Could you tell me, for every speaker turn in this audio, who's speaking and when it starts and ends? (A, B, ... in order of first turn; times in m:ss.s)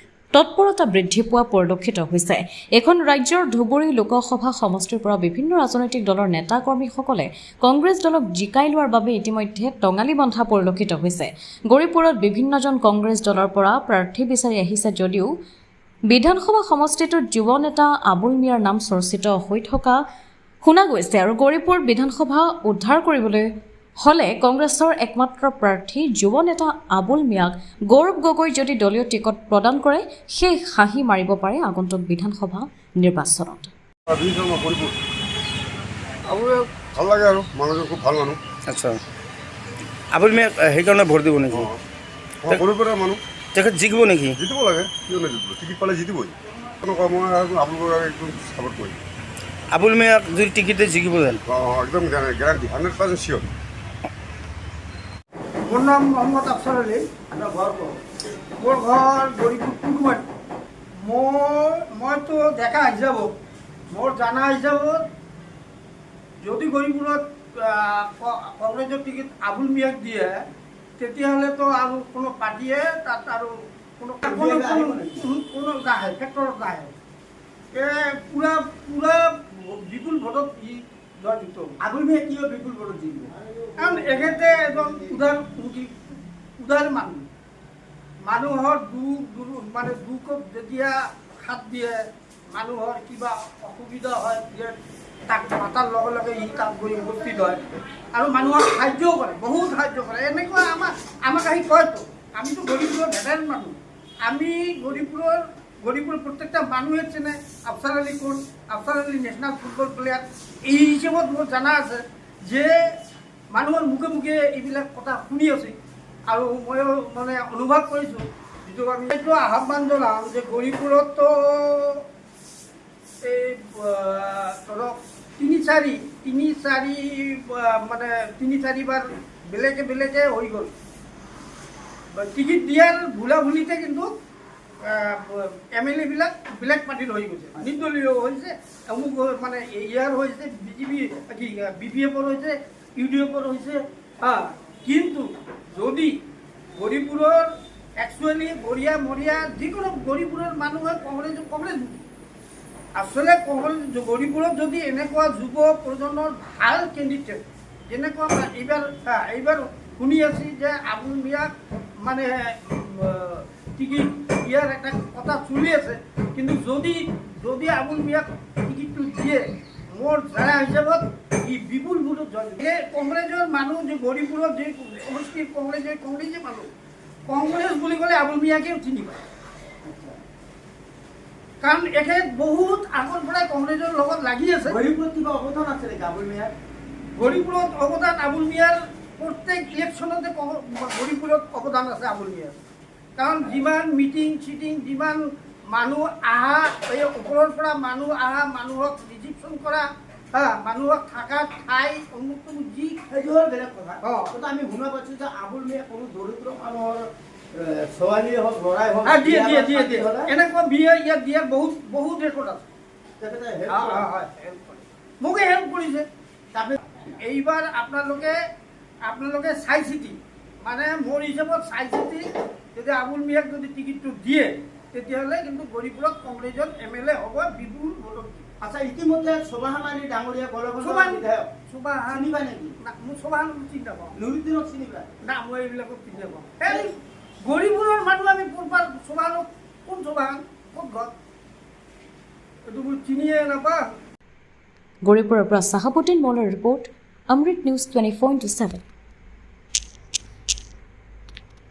0:00.3-0:15.3 A
0:16.1-0:20.0 A
0:20.6-0:23.4 A
0:24.0-0:33.7 A
0:34.1-0:35.0 B
0:36.9-0:38.4 B
0:38.7-0:39.0 C
0:40.1-0:41.7 C
0:41.5-0:41.8 B
0:42.4-0:43.2 B
0:43.6-0:44.4 C
0:44.4-0:49.0 B
0:49.7-0:51.4 C
0:51.5-0:53.5 B
0:55.7-0:57.0 D
0:57.3-0:58.0 E
0:58.6-1:00.2 D
1:01.0-1:03.3 D
1:03.9-1:05.0 D
1:06.4-1:10.4 D
1:11.0-1:16.9 D
1:14.2-1:15.2 E
1:17.7-1:21.7 D
1:21.8-1:24.7 E
1:23.8-1:27.2 D
1:28.2-1:34.8 D
1:35.3-1:37.6 D
1:38.1-1:52.8 D
1:53.5-1:55.8 D
1:56.3-2:02.0 D
2:03.2-2:10.7 D
2:12.1-2:14.1 D
2:14.8-2:26.1 D
2:26.8-2:32.0 D
2:33.0-2:56.7 D
2:57.3-2:59.2 D
2:59.8-3:00.2 E
3:01.6-3:04.8 D
3:04.6-3:06.5 E
3:07.2-3:12.6 D
3:13.2-3:23.0 D
3:23.1-3:30.3 E
3:24.0-3:24.4 D
3:29.0-3:32.7 D
3:33.2-3:34.0 E
3:33.7-3:36.1 D
3:36.5-3:36.8 E
3:37.2-3:38.3 D
3:39.1-3:48.5 D
3:48.6-3:51.5 E
3:50.8-3:52.3 D
3:52.1-3:52.7 E
3:52.8-3:54.2 D
3:54.2-3:55.1 E
3:55.2-4:01.1 D
4:02.7-4:03.8 D
4:05.0-4:08.8 A